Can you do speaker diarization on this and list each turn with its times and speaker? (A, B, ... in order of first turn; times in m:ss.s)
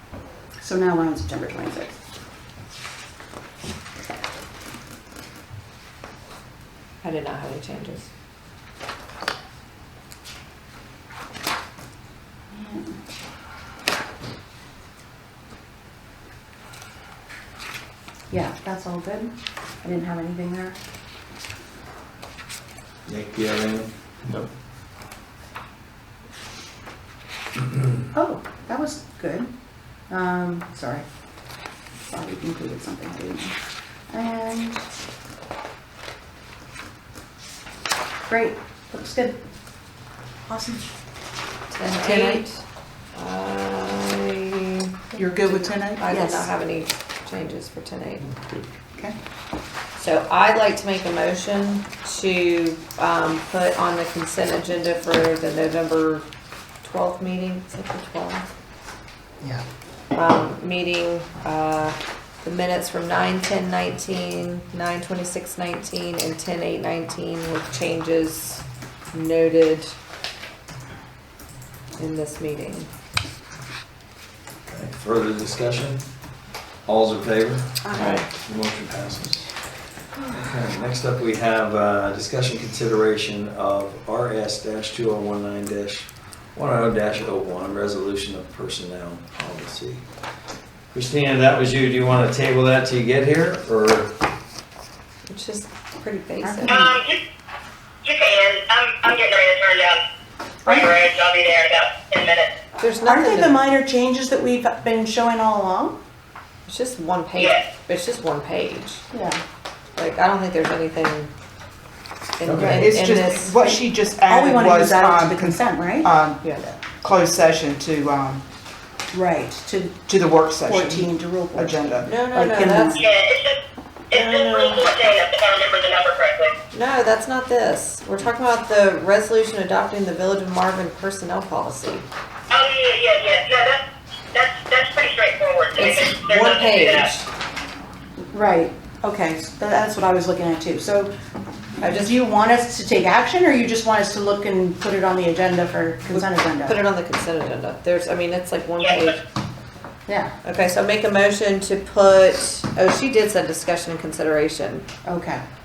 0:00.6-0:01.9 A
0:07.0-0:08.1 B
0:12.5-0:13.0 A
0:18.3-0:20.8 A
0:23.0-0:23.9 C
0:28.1-0:29.5 A
0:30.1-0:31.0 A
0:32.1-0:33.6 A
0:34.1-0:34.8 A
0:38.3-0:39.4 A
0:40.5-0:40.9 A
0:41.7-0:42.6 B
0:42.0-0:42.4 D
0:43.1-0:48.3 B
0:45.2-0:46.1 D
0:46.1-0:46.5 A
0:50.0-0:56.2 B
0:56.8-0:58.4 B
1:00.1-1:09.9 B
1:12.0-1:12.9 B
1:14.7-1:16.1 C
1:16.8-1:19.5 C
1:17.8-1:18.2 A
1:18.0-1:18.2 B
1:20.3-1:30.0 C
1:30.9-1:34.2 C
1:35.3-1:36.8 B
1:36.4-1:37.0 A
1:36.6-1:37.2 E
1:38.0-1:40.0 E
1:40.6-1:40.9 A
1:40.6-1:42.5 E
1:42.8-1:43.6 B
1:43.0-1:46.0 A
1:46.6-1:49.0 B
1:47.3-1:47.6 E
1:49.1-1:49.4 A
1:50.0-1:51.3 B
1:52.4-1:53.7 B
1:52.4-1:52.9 C
1:52.6-1:58.4 D
1:54.2-1:56.1 A
1:59.1-2:03.0 A
2:00.1-2:02.1 D
2:02.0-2:03.0 B
2:02.9-2:03.6 E
2:04.1-2:06.5 E
2:04.1-2:04.8 B
2:06.7-2:12.0 B
2:12.5-2:17.1 E
2:15.8-2:17.3 B
2:18.3-2:21.1 A
2:21.8-2:22.2 B
2:21.8-2:26.8 A
2:26.1-2:29.2 B
2:28.8-2:29.1 E
2:30.1-2:30.3 A
2:30.4-2:34.8 B
2:35.0-2:35.4 A